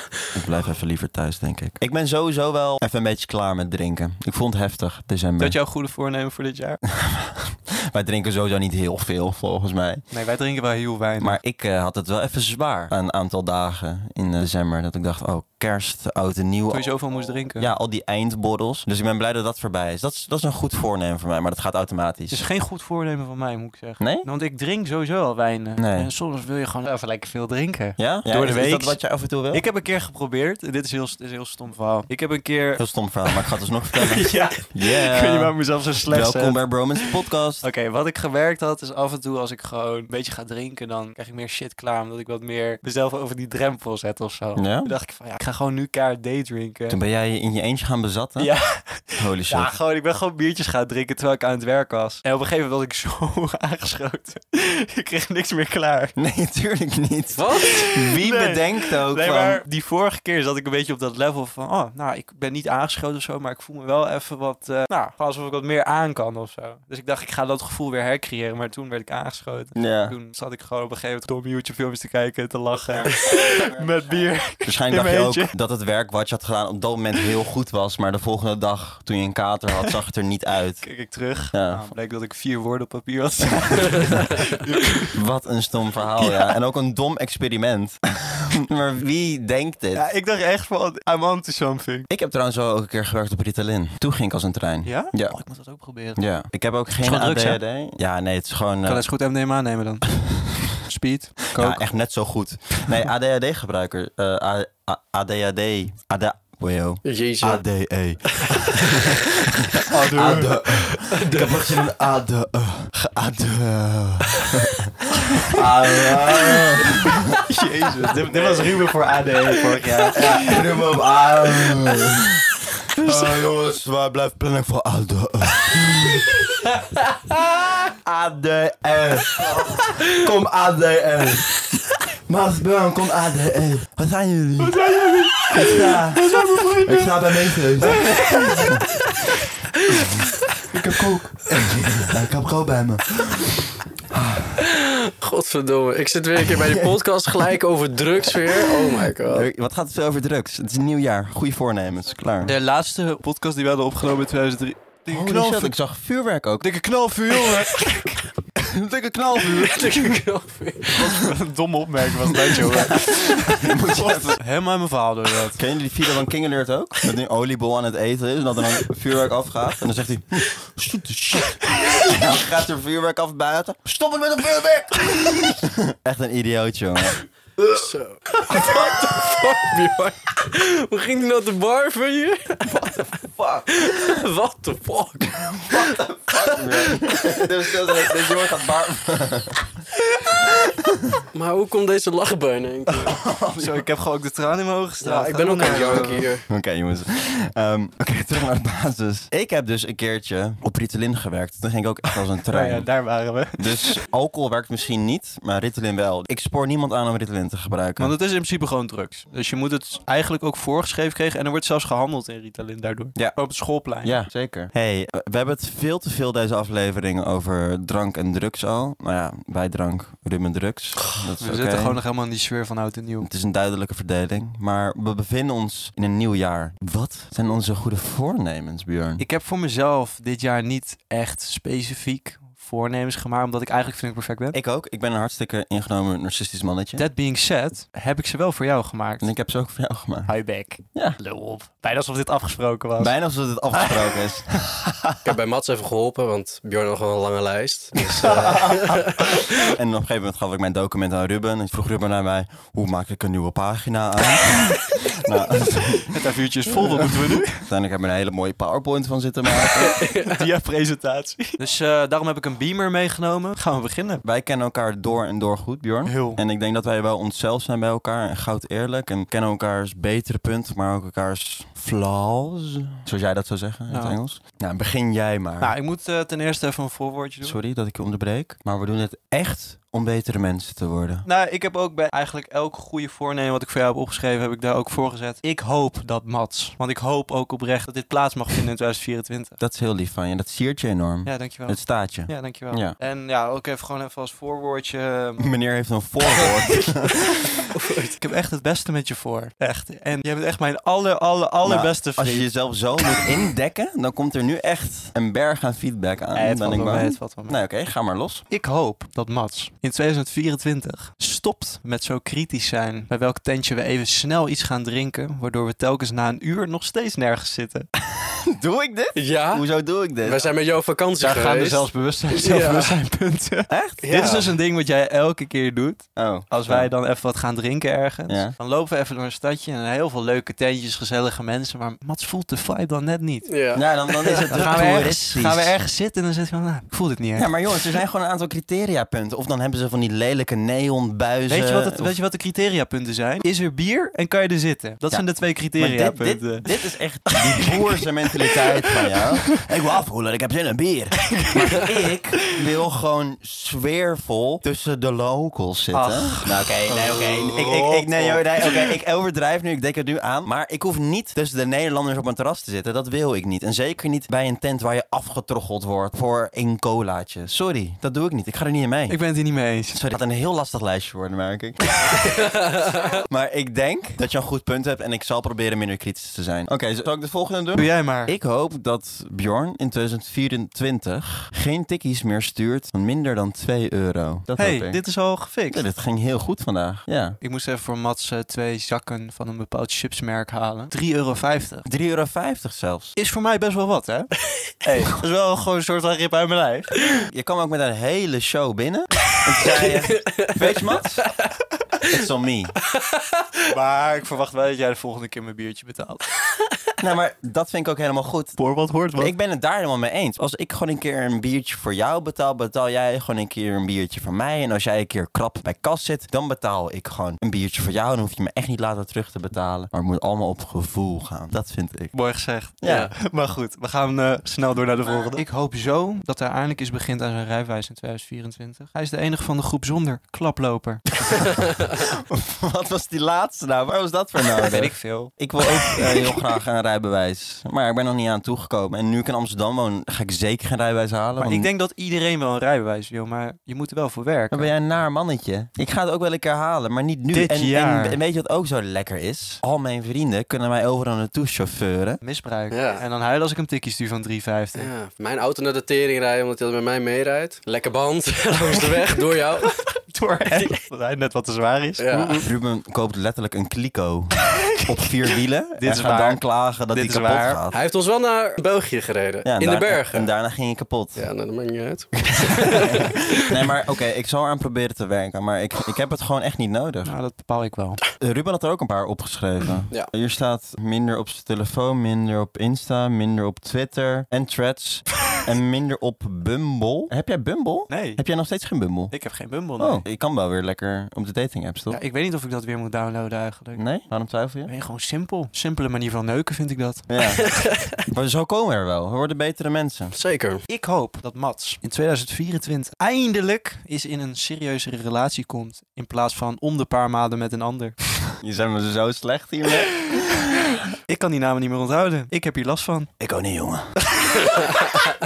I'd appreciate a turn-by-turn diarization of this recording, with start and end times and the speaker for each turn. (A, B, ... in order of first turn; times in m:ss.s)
0:00.3-0:05.6 A
0:05.4-0:06.8 B
0:06.9-0:10.0 A
0:10.1-0:11.4 B
0:11.2-0:22.4 A
0:16.7-0:17.7 B
0:22.3-0:33.4 B
0:24.0-0:24.3 A
0:25.8-0:26.1 A
0:28.0-0:29.6 A
0:32.8-0:37.6 A
0:34.0-0:47.0 B
0:44.6-0:44.9 A
0:46.9-0:48.6 A
0:48.4-0:56.2 B
0:49.1-0:49.8 A
0:56.2-0:59.6 A
0:57.4-0:57.9 C
0:57.6-1:15.5 B
1:09.8-1:10.2 A
1:12.9-1:20.9 A
1:20.8-1:25.1 B
1:21.5-1:21.9 A
1:25.1-1:30.0 A
1:26.2-1:26.5 B
1:29.9-1:32.1 B
1:32.1-1:35.4 A
1:34.8-1:36.4 B
1:36.2-1:39.0 A
1:37.0-1:37.6 B
1:38.9-1:41.8 B
1:41.6-1:57.4 A
1:47.0-1:47.8 C
1:48.3-1:49.1 C
1:49.9-1:50.7 B
1:50.9-1:51.8 C
1:57.4-2:00.6 B
1:58.3-1:58.7 A
2:00.1-2:06.6 A
2:03.0-2:03.3 B
2:07.8-2:14.9 A
2:14.6-2:18.8 B
2:15.5-2:16.3 A
2:16.8-2:18.8 A
2:19.9-2:24.6 A
2:24.6-2:29.5 C
2:26.5-2:27.0 A
2:28.4-2:32.6 A
2:32.4-2:35.8 B
2:35.1-2:36.7 A
2:36.6-2:38.2 B
2:38.6-2:40.2 A
2:39.4-2:41.2 C
2:41.0-2:45.6 B
2:42.5-2:44.4 A
2:45.6-2:57.8 A
2:57.7-3:08.2 C
2:58.5-2:59.0 A
3:02.7-3:04.2 A
3:05.5-3:09.7 A
3:10.9-3:11.2 A
3:11.3-3:13.2 C
3:13.0-3:13.9 A
3:13.6-3:16.3 B
3:15.0-3:16.5 C
3:16.5-3:22.9 A
3:22.5-3:24.0 B
3:23.6-3:28.1 A
3:28.0-3:34.2 B
3:34.0-3:42.0 A
3:41.4-3:43.3 B
3:43.2-3:49.2 A
3:49.2-3:54.6 B
3:54.5-3:57.0 A
3:57.0-3:59.3 B
3:59.2-4:00.3 A
4:00.3-4:03.2 B
4:03.0-4:04.8 A
4:03.8-4:04.2 B
4:05.2-4:09.4 C
4:08.1-4:09.4 B
4:09.4-4:16.2 A
4:16.0-4:17.7 B
4:17.0-4:20.0 A
4:19.8-4:20.5 C
4:20.1-4:24.2 B
4:24.2-4:35.7 A
4:26.0-4:26.4 B
4:33.9-4:34.2 B
4:35.6-4:37.6 B
4:37.4-4:41.3 A
4:41.2-4:49.6 B
4:49.6-4:53.0 A
4:51.2-4:55.5 B
4:55.4-4:57.4 A
4:57.7-4:58.2 C
4:58.2-5:02.5 B
5:01.6-5:08.4 A
5:06.3-5:07.6 B
5:08.5-5:17.9 B
5:18.2-5:20.5 A
5:19.2-5:19.7 C
5:20.2-5:23.0 C
5:21.2-5:33.5 B
5:23.7-5:24.1 A
5:24.0-5:24.6 C
5:26.2-5:26.9 A
5:28.3-5:28.6 A
5:33.5-5:34.6 C
5:33.7-5:35.8 A
5:34.5-5:37.5 B
5:37.4-5:42.1 A
5:41.5-5:46.7 B
5:45.1-6:09.2 A
5:47.3-5:49.6 B
5:51.2-5:51.9 B
5:55.9-5:58.9 B
6:09.1-6:10.0 B
6:09.9-6:12.6 A
6:13.1-6:25.0 A
6:17.8-6:18.4 B
6:24.6-6:25.8 B
6:25.7-6:27.4 A
6:27.4-6:31.9 B
6:31.8-6:33.2 A
6:33.2-6:37.0 B
6:37.2-6:41.3 A
6:39.7-6:40.6 C
6:42.0-6:42.8 A
6:43.1-6:43.4 C
6:43.7-6:46.2 B
6:47.0-6:48.6 A
6:48.6-6:49.3 B
6:49.1-7:02.1 A
7:02.1-7:11.5 B
7:02.8-7:03.1 A
7:02.8-7:03.1 C
7:11.3-7:21.7 A
7:14.6-7:15.3 B
7:21.4-7:24.7 B
7:24.5-7:32.2 A
7:27.3-7:28.2 B
7:32.2-7:34.9 B
7:32.7-7:33.0 C
7:34.8-7:39.8 C
7:39.7-7:42.5 B
7:42.0-7:42.5 C
7:42.4-7:47.8 A
7:44.5-7:45.0 B
7:45.8-7:47.6 B
7:47.7-7:50.3 C
7:49.4-7:51.3 A
7:51.2-7:53.6 C
7:52.3-7:57.1 A
7:57.0-7:58.0 B
7:58.2-8:09.2 A
8:07.9-8:08.2 B
8:09.1-8:10.0 B
8:09.8-8:12.0 A
8:11.9-8:13.8 B
8:13.8-8:14.7 A
8:14.6-8:17.1 B
8:17.1-8:17.4 A
8:17.4-8:18.0 C
8:18.1-8:20.2 A
8:20.1-8:20.6 C
8:20.7-8:28.0 B
8:28.4-8:30.8 A
8:31.1-8:33.1 B
8:33.2-8:34.5 A